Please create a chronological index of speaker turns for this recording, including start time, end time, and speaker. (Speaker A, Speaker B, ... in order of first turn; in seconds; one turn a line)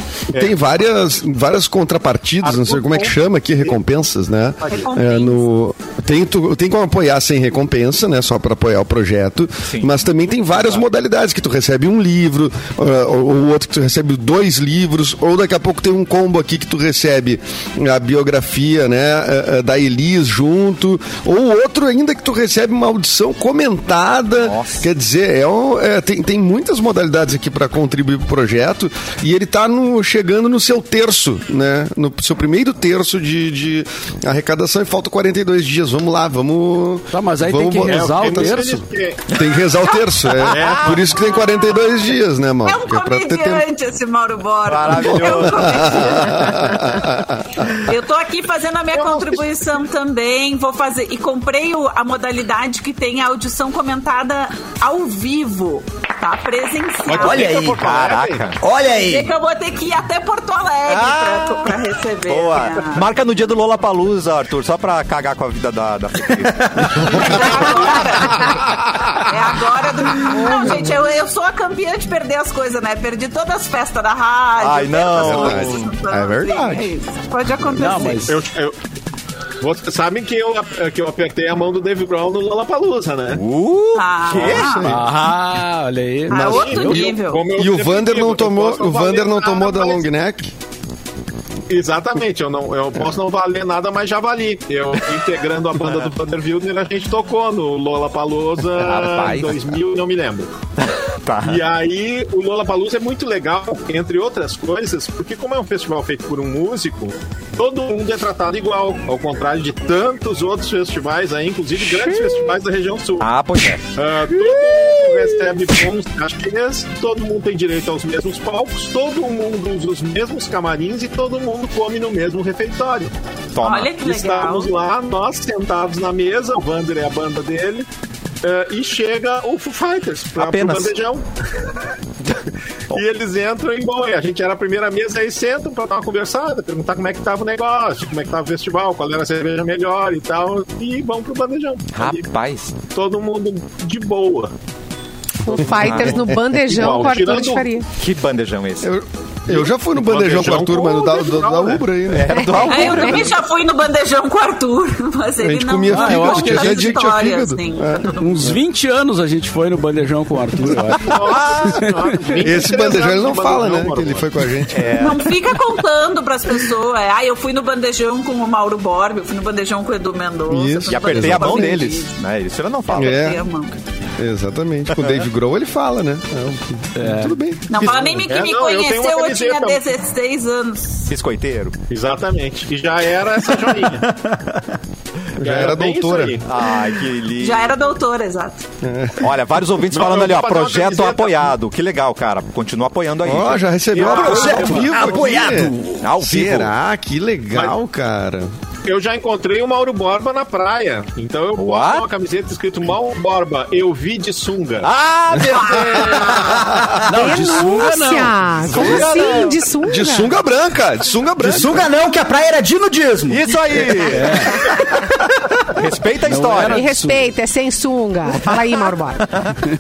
Speaker A: 0.3-0.6
Speaker B: 0.3-38.7
Speaker A: 2.4-3.8
Speaker C: 4.7-5.5
Speaker D: 9.7-10.0
Speaker D: 24.4-24.9
Speaker E: 37.1-38.9
Speaker A: 37.8-39.4
Speaker B: 39.3-43.7
Speaker A: 40.5-41.1
Speaker C: 41.3-41.6
Speaker C: 42.6-46.8
Speaker D: 44.7-46.0
Speaker B: 44.9-47.8
Speaker C: 47.8-57.6
Speaker A: 48.9-49.4
Speaker A: 57.1-58.5
Speaker F: 57.1-57.8
Speaker D: 57.7-58.6
Speaker F: 58.6-59.3
Speaker C: 59.0-63.1
Speaker D: 60.9-61.8
Speaker D: 62.3-68.5
Speaker F: 66.6-67.0
Speaker C: 67.0-78.4
Speaker D: 74.6-75.9
Speaker B: 75.1-76.9
Speaker E: 77.8-78.4
Speaker A: 78.3-78.8
Speaker A: 79.6-83.4
Speaker D: 83.3-84.9
Speaker C: 84.0-84.9
Speaker B: 84.3-85.1
Speaker E: 84.9-87.1
Speaker C: 86.3-87.5
Speaker A: 86.3-90.0
Speaker B: 87.5-90.5
Speaker A: 91.7-100.5
Speaker D: 98.7-99.8
Speaker D: 100.8-101.6
Speaker A: 101.4-113.3
Speaker D: 113.2-113.8
Speaker A: 113.9-123.1
Speaker D: 123.5-123.9
Speaker C: 123.6-124.7
Speaker A: 124.0-127.9
Speaker A: 128.4-131.2
Speaker D: 130.4-130.9
Speaker A: 132.9-142.3
Speaker D: 141.9-142.8
Speaker A: 142.9-144.5
Speaker G: 145.4-147.9
Speaker B: 145.6-146.4
Speaker D: 145.7-146.2
Speaker A: 146.6-147.7
Speaker D: 148.0-148.9
Speaker B: 148.8-153.1
Speaker A: 149.5-151.8
Speaker D: 152.1-153.4
Speaker G: 152.3-153.1
Speaker C: 152.7-158.6
Speaker B: 155.4-158.6
Speaker E: 155.9-156.9
Speaker E: 158.2-162.2
Speaker A: 161.0-164.3
Speaker D: 161.1-161.8
Speaker B: 162.4-165.1
Speaker D: 164.7-165.4
Speaker C: 164.9-172.2
Speaker B: 170.5-171.8
Speaker D: 170.9-173.2
Speaker B: 172.9-173.4
Speaker C: 173.0-173.8
Speaker B: 174.2-177.8
Speaker D: 175.0-175.2
Speaker E: 177.0-177.4
Speaker C: 177.7-181.1
Speaker A: 177.7-179.8
Speaker D: 181.1-181.8
Speaker A: 181.9-184.1
Speaker F: 183.7-184.8
Speaker B: 185.4-186.4
Speaker A: 185.4-186.5
Speaker D: 186.4-187.7
Speaker C: 187.4-188.7
Speaker B: 188.8-189.3
Speaker D: 189.2-194.6
Speaker A: 189.9-191.5
Speaker B: 193.2-198.5
Speaker A: 193.9-195.1
Speaker F: 194.1-196.1
Speaker D: 196.0-196.7
Speaker A: 198.8-204.9
Speaker D: 201.6-202.1
Speaker D: 204.8-206.7
Speaker B: 205.5-205.8
Speaker A: 205.9-206.6
Speaker B: 206.6-206.9
Speaker E: 207.0-209.3
Speaker G: 207.1-210.3
Speaker D: 208.7-209.6
Speaker B: 209.8-211.9
Speaker F: 211.4-213.5
Speaker D: 213.3-214.6
Speaker E: 214.1-214.6
Speaker D: 215.7-216.9
Speaker E: 216.2-217.3
Speaker G: 216.7-219.3
Speaker D: 219.3-219.6